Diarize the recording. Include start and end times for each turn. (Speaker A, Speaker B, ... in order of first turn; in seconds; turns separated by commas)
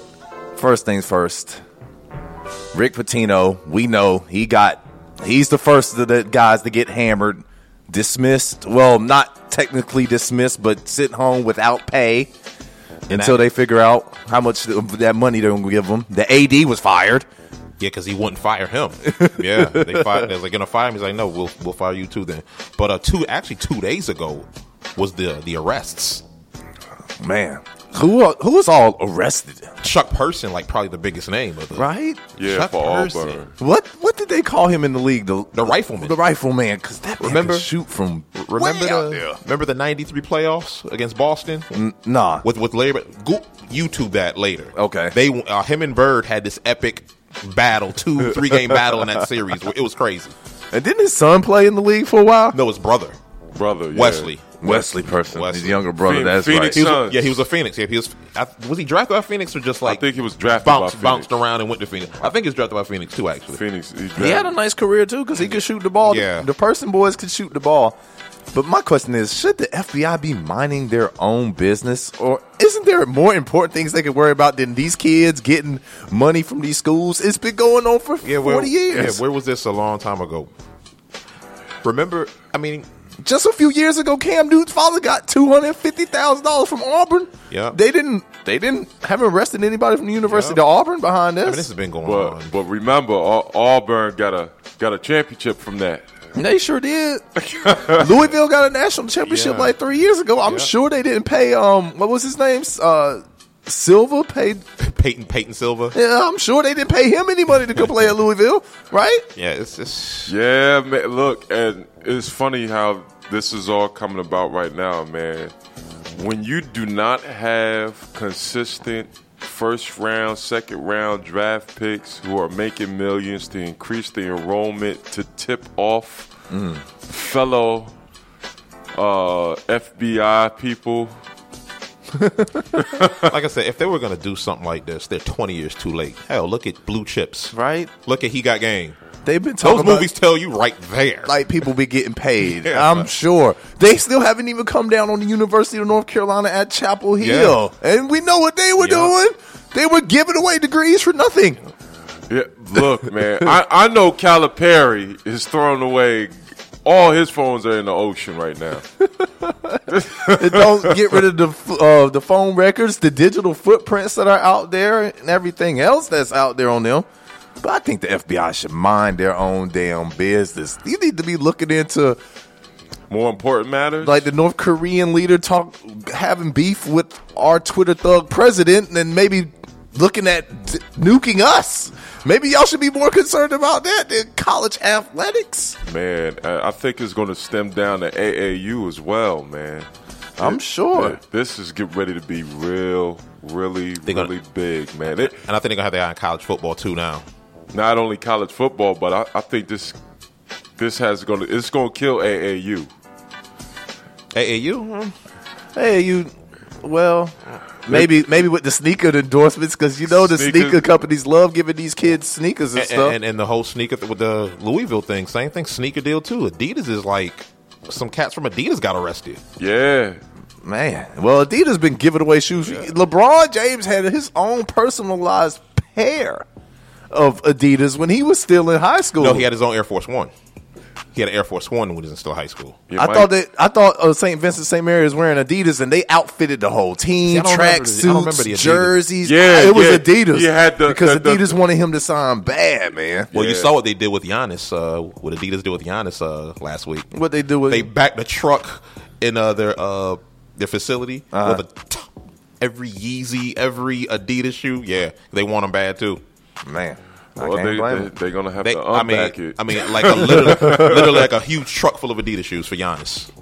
Speaker A: 0.6-1.6, Speaker A: 2.7-12.3, Speaker B: 13.1-13.4, Speaker A: 13.1-17.3, Speaker B: 17.8-26.2, Speaker A: 19.1-20.3, Speaker A: 27.2-29.8, Speaker B: 29.8-31.9, Speaker A: 31.7-32.2, Speaker C: 32.4-33.5, Speaker B: 32.4-33.4, Speaker A: 33.6-39.4, Speaker B: 35.5-36.2, Speaker B: 37.2-37.7, Speaker B: 38.4-41.7, Speaker A: 41.7-42.4, Speaker B: 42.4-50.4, Speaker A: 44.7-45.1, Speaker A: 48.8-49.0, Speaker A: 50.7-52.6, Speaker B: 52.5-53.2, Speaker C: 53.6-54.3, Speaker B: 53.9-55.8, Speaker A: 54.6-56.9, Speaker C: 56.0-57.5, Speaker B: 56.7-60.0, Speaker C: 59.9-61.3, Speaker B: 60.6-63.6, Speaker C: 63.5-64.5, Speaker A: 64.2-68.0, Speaker B: 66.0-66.5, Speaker A: 68.5-79.2, Speaker B: 78.2-80.5, Speaker B: 81.8-82.9, Speaker A: 83.2-91.7, Speaker B: 87.5-87.8, Speaker B: 90.3-90.6, Speaker B: 91.5-92.5, Speaker C: 92.0-96.1, Speaker A: 96.4-104.6, Speaker C: 97.5-98.2, Speaker B: 99.2-99.8, Speaker B: 100.4-100.7, Speaker B: 104.8-106.0, Speaker A: 105.9-109.3, Speaker B: 107.8-108.1, Speaker B: 109.4-110.3, Speaker C: 110.3-115.5, Speaker C: 116.2-126.3, Speaker A: 126.5-126.8, Speaker C: 127.1-127.9, Speaker C: 128.9-131.2, Speaker A: 132.2-132.8, Speaker B: 132.8-139.0, Speaker A: 137.5-137.9, Speaker A: 139.2-140.1, Speaker B: 139.6-141.4, Speaker A: 141.3-151.7, Speaker B: 142.5-143.1, Speaker B: 147.2-147.6, Speaker B: 148.8-149.1, Speaker C: 152.3-156.3, Speaker C: 156.8-158.8, Speaker A: 159.2-167.1, Speaker C: 159.9-161.1, Speaker A: 167.6-172.2, Speaker C: 173.1-174.3, Speaker A: 174.0-185.8, Speaker C: 185.8-189.9, Speaker A: 190.4-191.2, Speaker C: 190.4-195.4, Speaker B: 194.1-194.3, Speaker B: 195.1-197.2, Speaker C: 197.7-200.0, Speaker C: 200.8-202.9, Speaker B: 204.3-205.1, Speaker A: 205.8-213.2, Speaker C: 210.1-210.8, Speaker B: 212.8-219.4, Speaker C: 219.6-220.2, Speaker A: 220.6-226.5, Speaker A: 227.1-229.5, Speaker B: 229.2-230.3, Speaker B: 231.1-232.8, Speaker C: 232.9-233.3, Speaker A: 233.0-243.3, Speaker B: 237.3-239.0, Speaker C: 239.2-241.6, Speaker C: 243.3-243.7, Speaker B: 243.3-247.1, Speaker A: 247.1-247.9, Speaker B: 247.7-256.2, Speaker A: 251.3-251.6, Speaker A: 256.6-258.1, Speaker C: 257.4-261.3, Speaker B: 258.6-263.3